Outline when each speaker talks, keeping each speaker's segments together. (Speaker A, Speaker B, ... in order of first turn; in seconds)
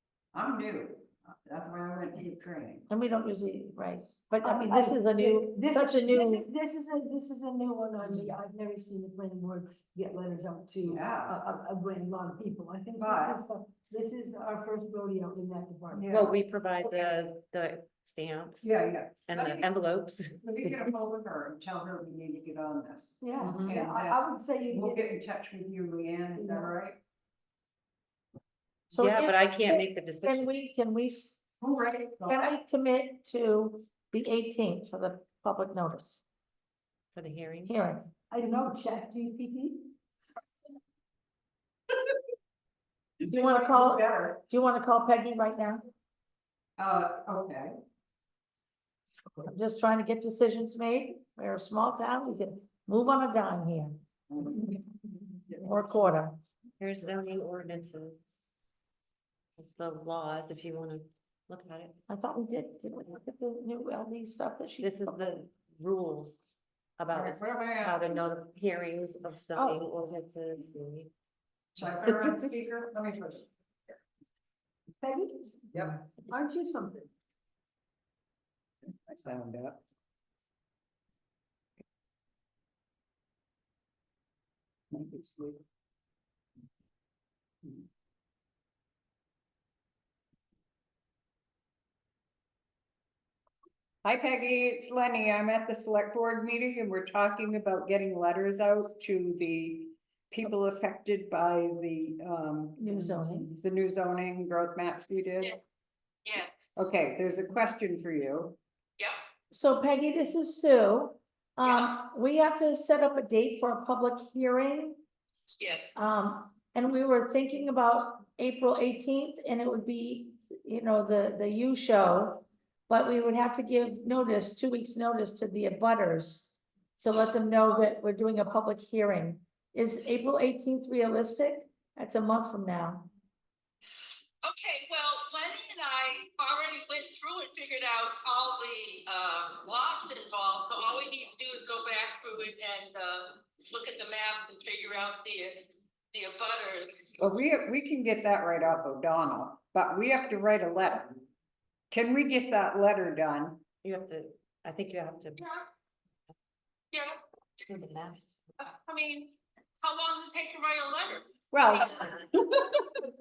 Speaker A: 0.3-2.9, 10.8-11.4, 13.0-13.4, 15.9-16.4, 18.6-19.7, 20.4-27.0, 31.6-32.5, 43.2-44.4, 46.8-47.7, 54.3-54.8, 67.1-68.2, 71.8-73.5, 75.7-76.0, 79.1-79.8, 84.9-85.6, 94.0-105.5, 106.8-108.6, 147.2-151.2, 151.9-153.6, 161.5-163.0
Speaker B: 2.9-6.5, 28.9-31.4, 32.3-36.2, 37.7-38.1, 43.2-45.8, 49.4-54.0, 55.5-56.4, 62.1-65.2, 102.8-103.5, 109.5-115.0, 115.9-133.1
Speaker C: 4.4-16.1, 23.2-25.1, 26.4-26.7, 38.3-39.9, 75.0-77.1
Speaker D: 16.1-20.9, 28.9-30.5, 37.1-37.8, 56.8-58.5, 59.6-62.0, 64.8-71.1, 153.8-155.5, 157.6-158.4
Speaker E: 106.2-106.5, 111.6-111.9, 115.5-115.9, 134.4-147.1, 156.9-157.2, 158.6-159.3, 159.8-162.1